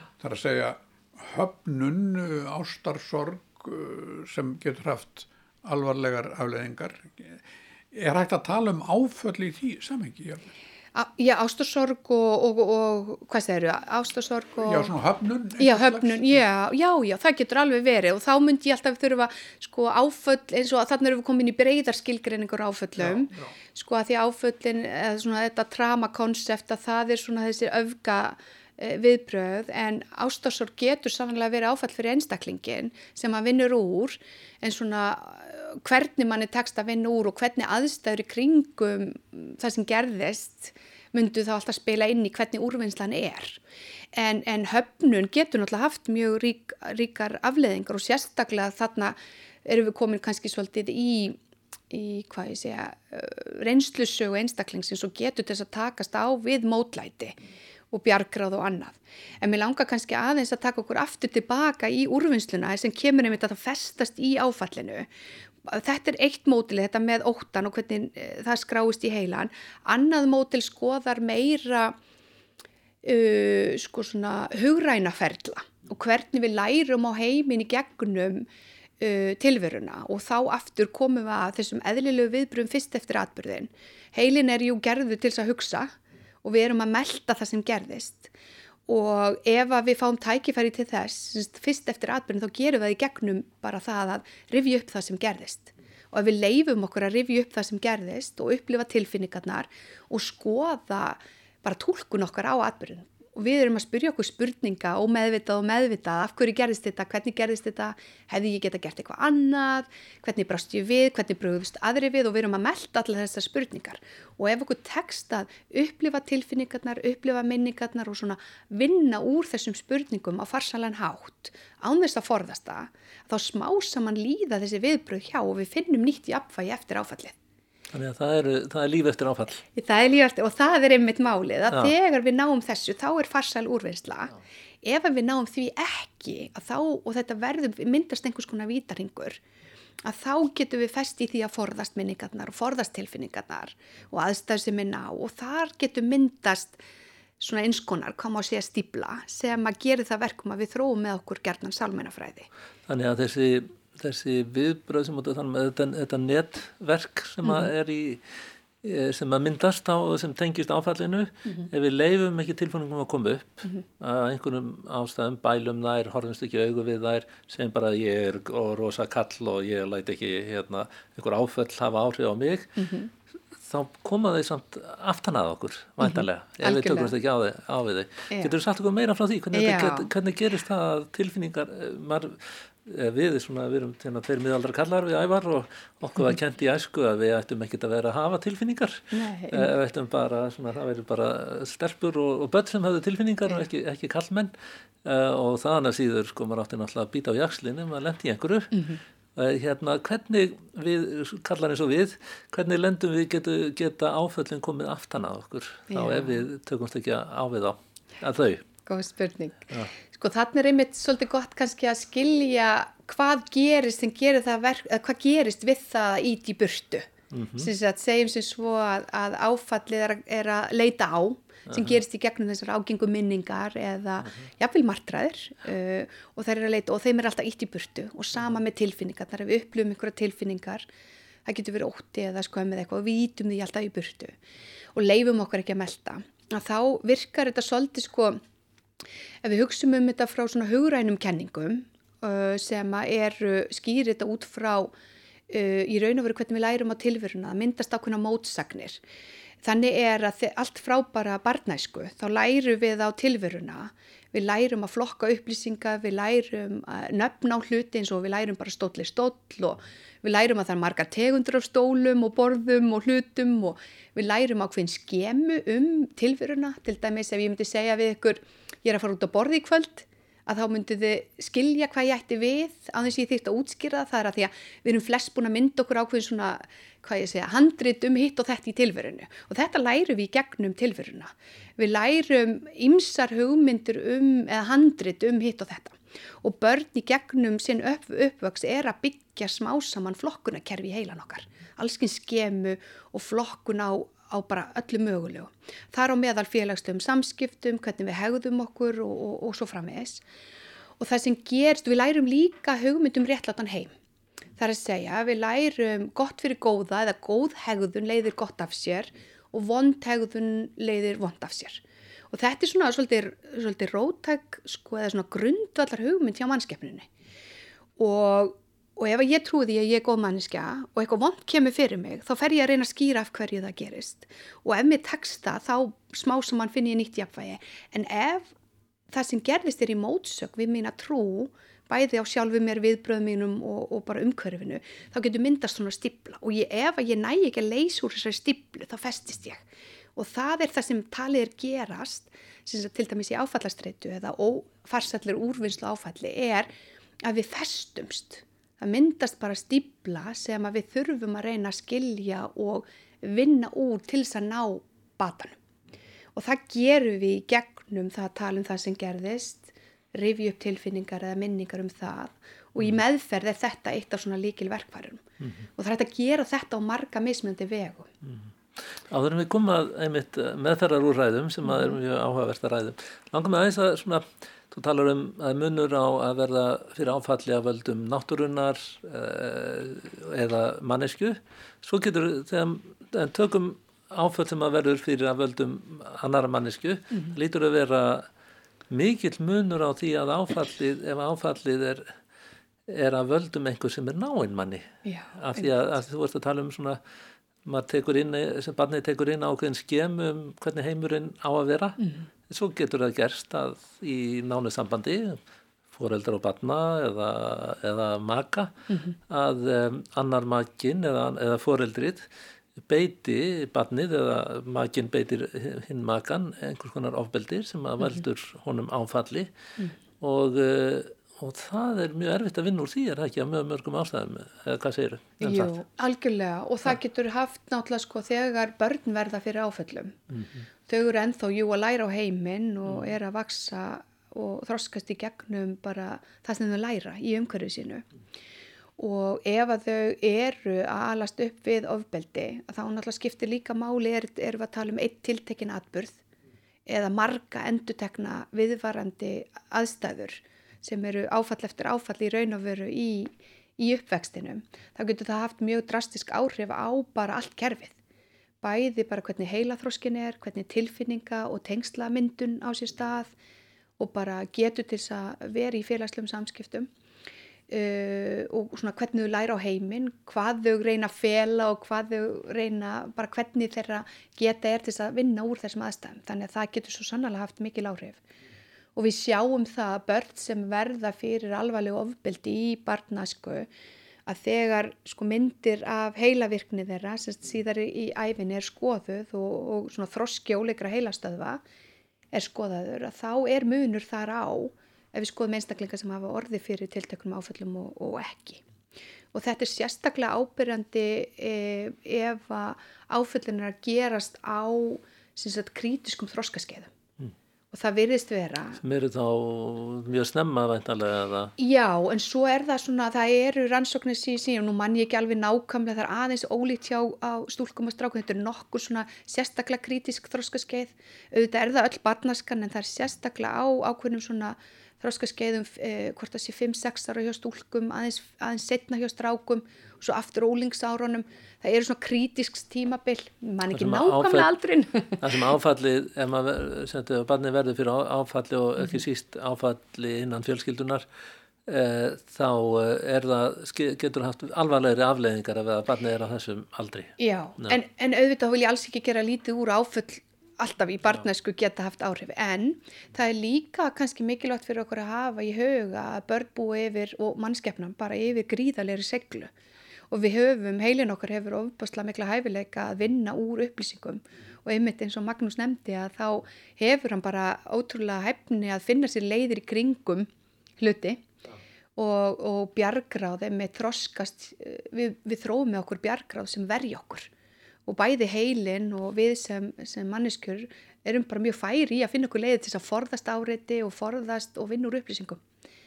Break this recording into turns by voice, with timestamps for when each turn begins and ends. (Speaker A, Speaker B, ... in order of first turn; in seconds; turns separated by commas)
Speaker A: 0.2-10.4, Speaker B: 10.9-14.9, Speaker A: 14.6-16.4, Speaker B: 15.6-43.6, Speaker A: 23.1-23.5, Speaker B: 44.1-51.4, Speaker B: 51.9-57.4, Speaker B: 57.9-65.1, Speaker B: 65.6-72.0, Speaker B: 73.0-78.5, Speaker B: 79.0-88.3, Speaker B: 88.9-127.3, Speaker C: 127.9-129.6, Speaker B: 129.7-139.4, Speaker B: 140.0-146.8, Speaker B: 147.4-152.5, Speaker C: 152.9-172.8, Speaker B: 157.4-157.7, Speaker B: 172.8-173.1, Speaker C: 173.6-194.5, Speaker B: 176.0-177.1, Speaker B: 179.5-180.1, Speaker B: 189.1-189.7, Speaker C: 195.0-198.8, Speaker B: 198.7-199.0, Speaker C: 199.3-208.6, Speaker B: 205.9-206.4, Speaker B: 208.8-230.8, Speaker C: 217.3-217.7, Speaker C: 221.7-221.9, Speaker B: 231.4-234.4, Speaker B: 234.9-238.4, Speaker B: 239.4-244.9, Speaker B: 245.5-249.0, Speaker B: 249.6-300.2, Speaker B: 301.0-303.9, Speaker B: 304.6-317.1, Speaker B: 318.0-328.5, Speaker B: 329.1-339.6, Speaker B: 340.1-346.7, Speaker B: 347.2-355.6, Speaker B: 356.4-365.2, Speaker B: 365.8-368.1, Speaker C: 368.2-388.3, Speaker B: 371.6-372.0, Speaker C: 388.9-392.2, Speaker C: 392.9-397.0, Speaker B: 395.0-395.7, Speaker C: 397.6-405.4, Speaker B: 402.0-402.3, Speaker C: 405.9-412.2, Speaker B: 408.9-409.1, Speaker C: 412.8-419.5, Speaker C: 420.2-425.7, Speaker B: 425.4-430.2, Speaker C: 430.4-430.6, Speaker B: 430.9-438.0, Speaker B: 439.0-446.2, Speaker B: 446.9-457.9, Speaker B: 458.6-463.3, Speaker B: 464.0-466.9, Speaker B: 467.7-478.2, Speaker B: 478.9-483.7, Speaker B: 484.3-491.6, Speaker B: 492.3-498.6, Speaker B: 499.3-506.9, Speaker B: 507.7-508.8, Speaker C: 508.8-511.5, Speaker B: 511.6-535.4, Speaker C: 533.7-534.5, Speaker C: 535.2-541.0, Speaker C: 541.7-547.7, Speaker B: 547.2-559.5, Speaker B: 560.1-571.2, Speaker B: 572.0-577.3, Speaker B: 577.9-585.4